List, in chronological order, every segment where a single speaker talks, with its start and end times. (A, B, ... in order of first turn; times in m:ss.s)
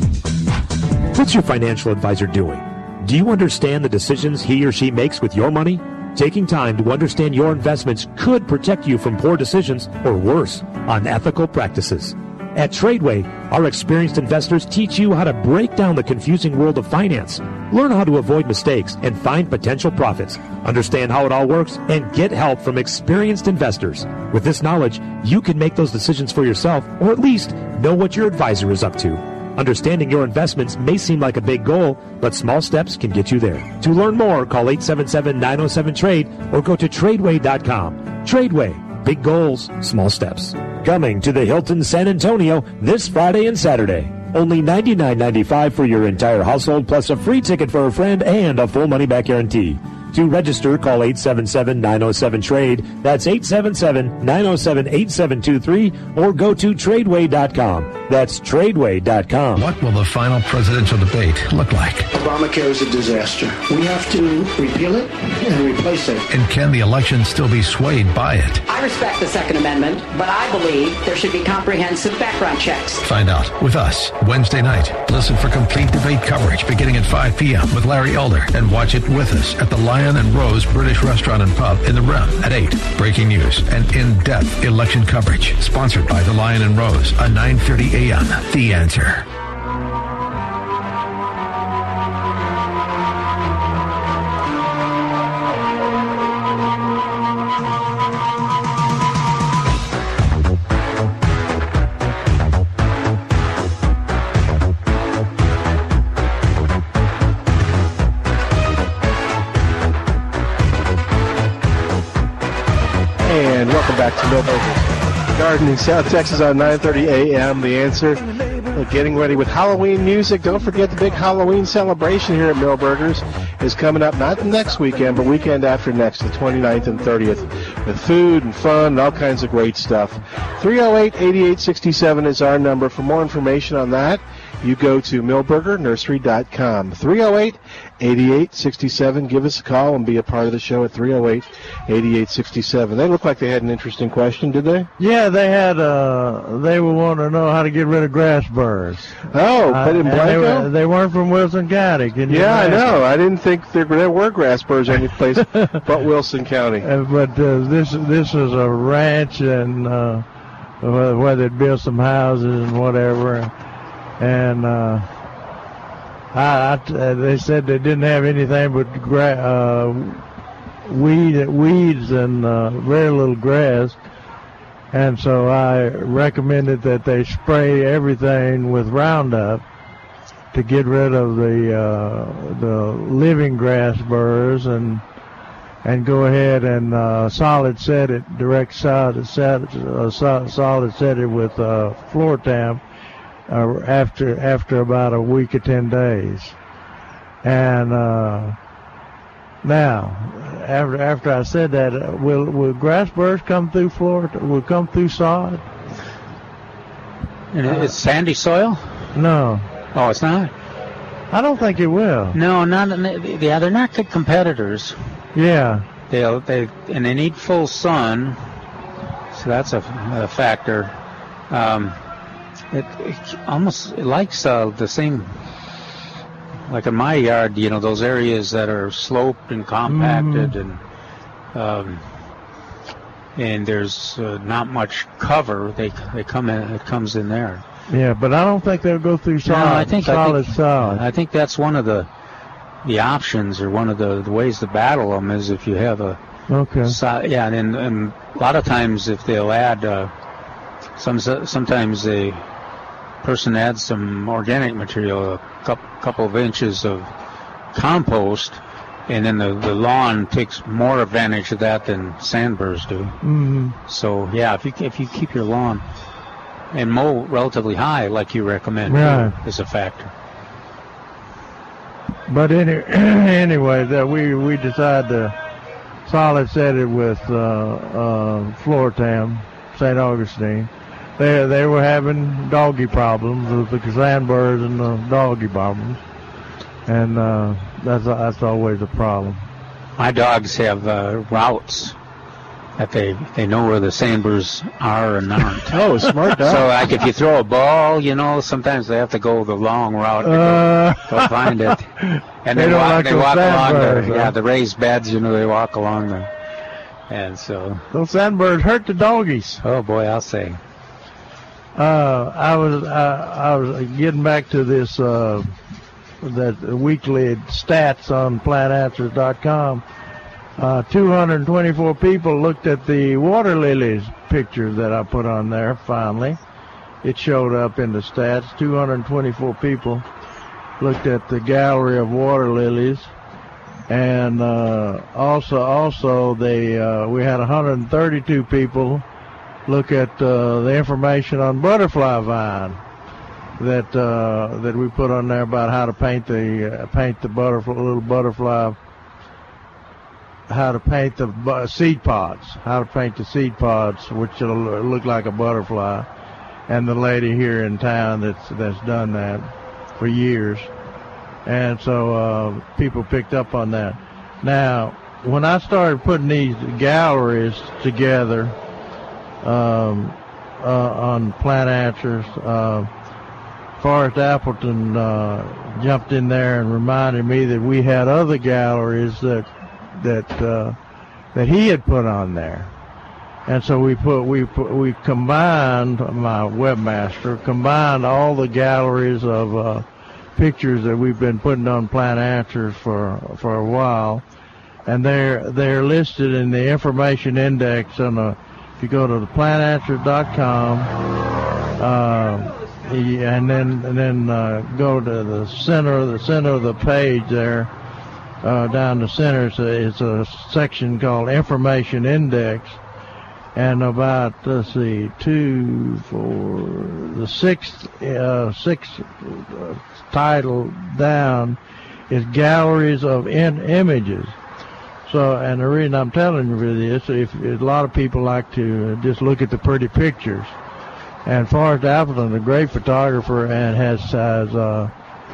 0:01.1-0:59.6 A
0:59.6-1:02.1 B
1:02.1-1:06.2 C
1:06.3-1:08.6 B
1:08.7-1:13.0 D
1:13.0-1:29.3 B
1:53.2-2:24.9 E
2:25.0-2:29.2 F
2:29.3-2:30.7 E
2:29.7-2:33.0 F
2:32.3-2:36.9 E
2:36.8-2:40.3 F
2:40.8-2:43.5 F
2:44.2-2:45.1 F
2:46.3-2:50.2 F
2:50.9-2:54.0 F
2:54.9-2:59.6 F
3:00.5-3:05.0 F
3:05.8-3:12.8 F
3:13.5-3:16.6 F
3:17.4-3:18.6 F
3:19.6-3:25.6 F
3:27.5-3:29.1 G
3:27.7-3:27.9 F
3:29.2-3:29.7 F
3:29.9-3:30.5 G
3:31.3-3:32.4 F
3:32.3-3:35.1 G
3:35.4-3:35.8 F
3:36.1-3:38.4 G
3:39.3-3:41.0 G
3:41.5-3:42.0 G
3:42.7-3:45.4 G
3:46.7-3:50.8 G
3:49.9-3:50.5 F
3:51.5-3:52.0 G
3:53.4-3:57.6 G
3:57.9-4:01.0 F
3:59.5-4:02.1 G
4:02.8-4:06.2 G
4:06.5-4:07.0 F
4:06.8-4:10.1 G
4:11.0-4:12.4 G
4:13.2-4:17.1 G
4:17.7-4:23.2 G
4:23.2-4:23.8 F
4:23.9-4:25.8 G
4:26.7-4:30.1 G
4:28.9-4:29.4 F
4:32.3-4:35.4 F
4:36.1-4:46.0 F
4:46.9-4:49.4 F
4:50.0-4:52.0 G
4:52.8-4:55.8 G
4:55.7-4:56.7 E
4:56.4-5:01.9 G
5:00.2-5:01.3 F
5:02.0-5:04.3 F
5:02.4-5:06.3 G
5:07.1-5:07.9 G
5:07.9-5:09.6 F
5:09.6-5:10.6 G
5:11.8-5:15.5 F
5:16.2-5:19.8 F
5:20.6-5:26.4 F
5:27.0-5:30.0 F
5:30.8-5:33.1 F
5:33.9-5:39.0 F
5:39.7-5:42.8 F
5:43.6-5:48.8 F
5:50.5-5:56.1 F
5:56.7-6:00.7 F
6:01.5-6:08.6 F
6:09.4-6:12.9 F
6:13.8-6:20.8 F
6:21.3-6:22.7 F
6:23.5-6:29.8 F
6:30.4-6:34.2 F
6:34.9-6:40.9 F
6:41.8-6:47.7 F
6:48.4-6:52.8 F
6:53.6-7:01.6 F
7:02.1-7:04.4 F
7:05.1-7:10.5 F
7:11.2-7:14.9 F